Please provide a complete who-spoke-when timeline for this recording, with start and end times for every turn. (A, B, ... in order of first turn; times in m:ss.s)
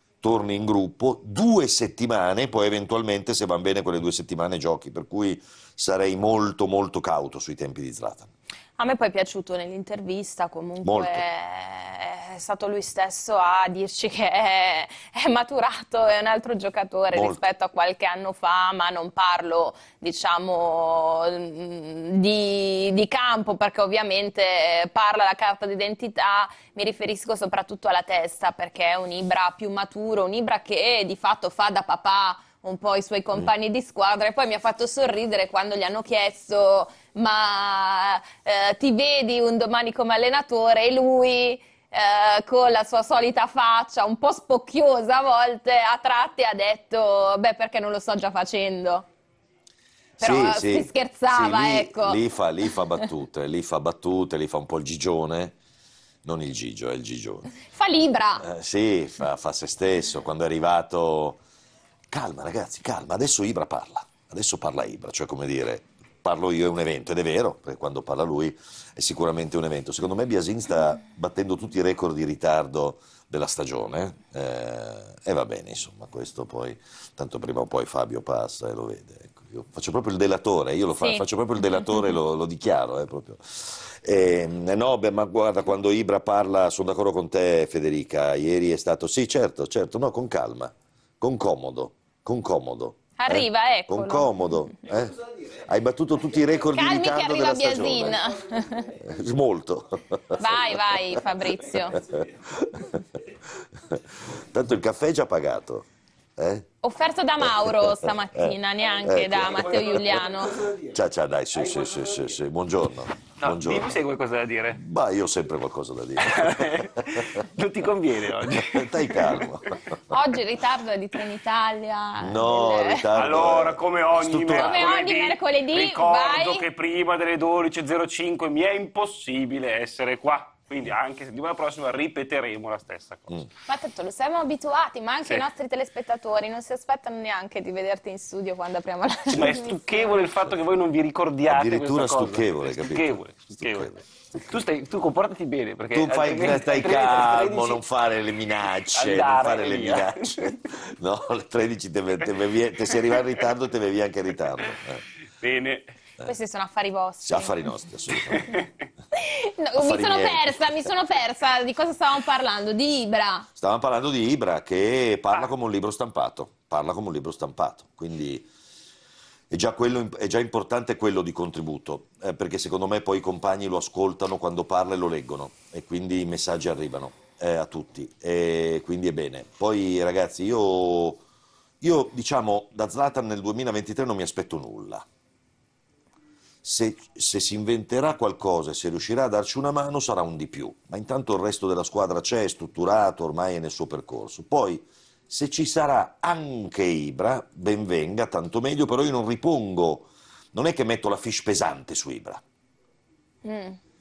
0:00.2-0:08.3 A
0:08.8-0:49.1 B
0:10.8-0:11.2 A
0:17.1-0:17.4 A
0:50.2-0:55.6 A
0:50.2-0:52.2 B
0:56.2-0:57.5 A
0:57.6-0:58.5 B
0:58.4-1:01.4 A
1:02.1-1:38.3 A
1:21.0-1:21.2 B
1:33.2-1:34.3 B
1:36.7-1:38.9 B
1:38.9-1:41.2 A
1:40.4-1:42.1 B
1:41.9-1:46.7 A
1:46.8-1:50.6 B
1:47.4-1:50.2 A
1:50.7-1:54.0 A
1:53.4-1:54.8 C
1:54.7-1:57.5 A
1:56.2-1:59.8 C
1:58.3-2:00.2 A
2:00.1-2:03.1 B
2:02.2-2:05.0 A
2:03.1-2:13.5 C
2:04.6-2:06.6 B
2:13.7-2:20.1 B
2:19.3-2:27.8 C
2:21.5-2:24.4 A
2:25.9-2:35.0 A
2:28.9-2:30.6 C
2:35.4-2:35.9 C
2:36.2-2:37.5 B
2:37.2-2:38.6 A
2:38.3-2:38.7 C
2:39.1-2:43.5 B
2:39.8-2:40.9 A
2:43.6-2:48.5 A
2:49.5-3:01.2 A
3:01.8-3:05.1 A
3:06.6-3:22.4 A
3:23.4-3:23.8 B